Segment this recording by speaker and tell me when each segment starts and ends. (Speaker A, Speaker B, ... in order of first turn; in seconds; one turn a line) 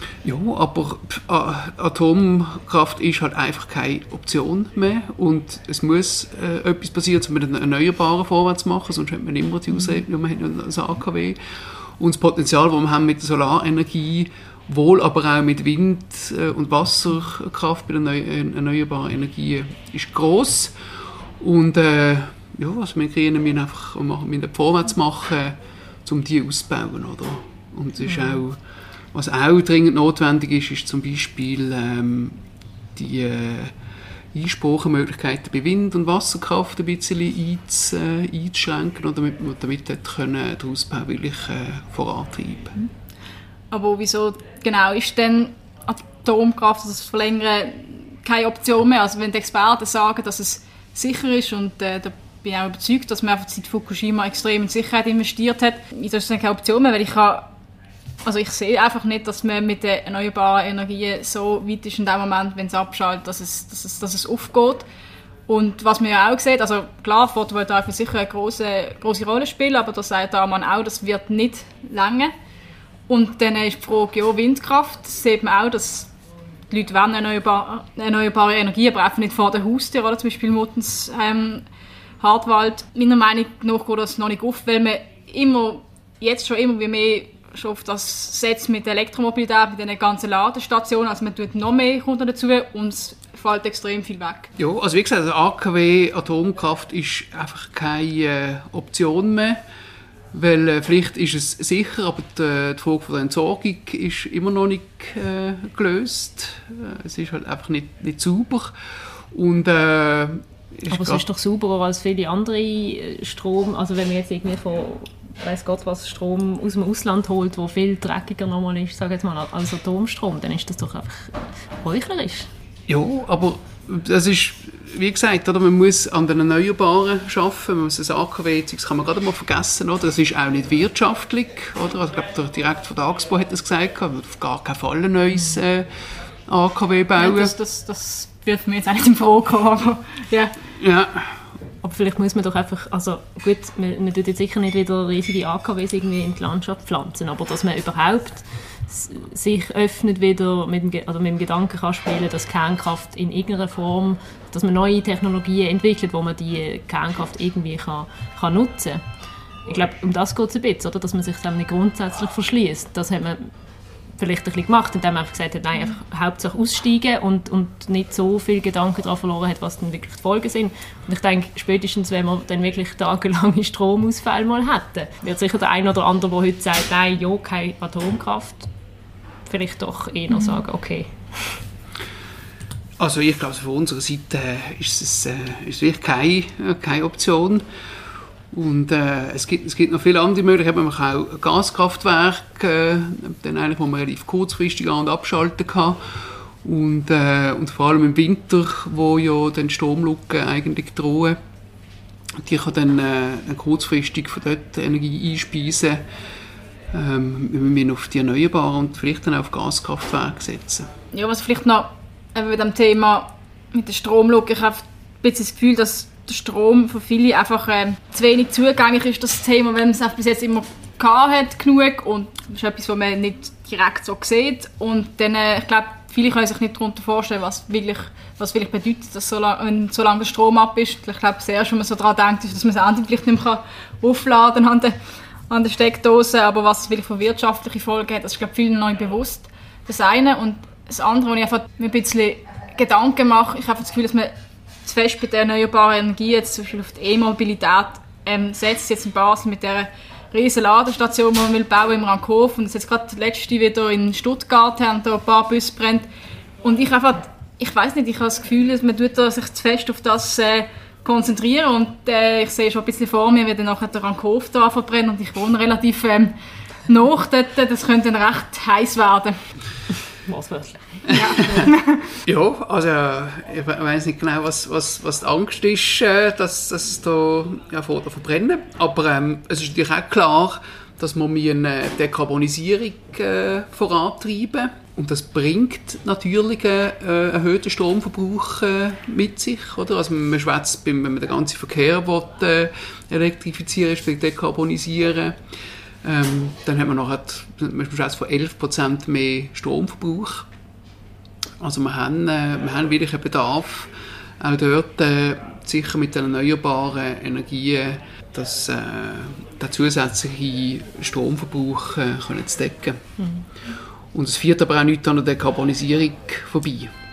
Speaker A: 0.2-11.4
Speaker A: 12.0-20.7
Speaker A: 21.4-28.6
Speaker A: 29.1-32.4
Speaker A: 33.0-33.7
Speaker A: 34.3-42.9
Speaker B: 43.7-57.5
Speaker B: 58.2-64.8
Speaker B: 65.5-72.3
Speaker B: 73.1-76.1
Speaker B: 76.7-81.6
Speaker B: 82.2-94.5
Speaker A: 94.6-99.6
Speaker A: 100.3-108.8
Speaker A: 109.3-111.2
Speaker C: 110.9-122.5
Speaker A: 122.9-135.9
Speaker A: 136.5-137.5
Speaker B: 137.2-140.6
Speaker A: 140.8-141.4
Speaker C: 141.8-159.0
Speaker C: 159.7-163.5
Speaker C: 164.2-178.7
Speaker C: 179.5-181.6
Speaker A: 183.0-187.6
Speaker A: 188.5-201.4
Speaker A: 202.4-206.1
Speaker A: 206.9-210.9
Speaker B: 211.1-235.0
Speaker B: 235.5-244.3
Speaker B: 244.8-256.1
Speaker B: 256.6-269.4
Speaker C: 270.3-271.2
Speaker A: 271.1-271.7
Speaker B: 271.1-272.2
Speaker A: 272.2-300.5
Speaker A: 301.6-313.0
Speaker A: 314.1-316.9